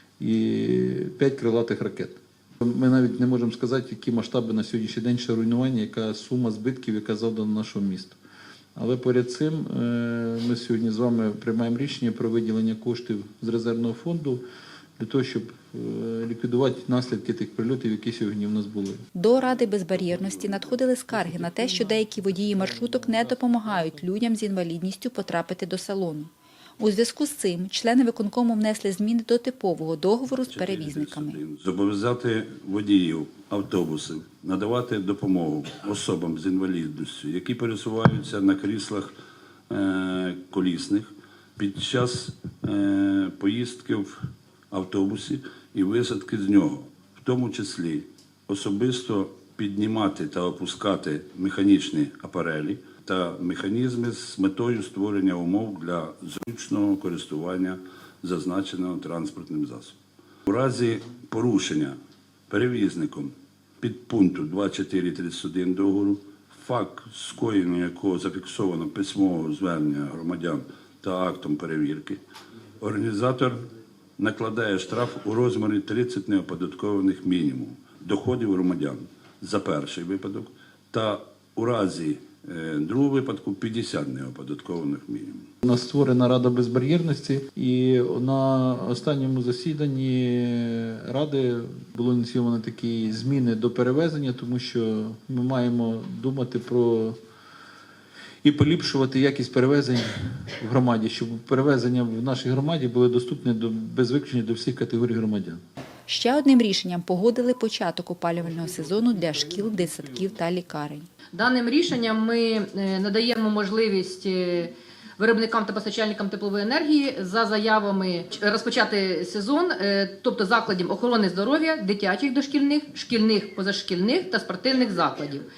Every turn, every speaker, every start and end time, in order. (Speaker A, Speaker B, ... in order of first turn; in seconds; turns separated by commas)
Speaker A: 0.2-8.2, Speaker A: 8.8-14.4, Speaker A: 15.0-19.0, Speaker B: 19.1-31.4, Speaker A: 21.1-24.1, Speaker C: 30.4-39.1, Speaker C: 39.7-44.2, Speaker C: 44.7-62.0, Speaker C: 62.5-72.2, Speaker C: 72.8-73.7, Speaker C: 74.2-85.5, Speaker A: 85.6-97.2, Speaker A: 98.4-105.6, Speaker B: 106.1-111.0, Speaker D: 111.3-125.5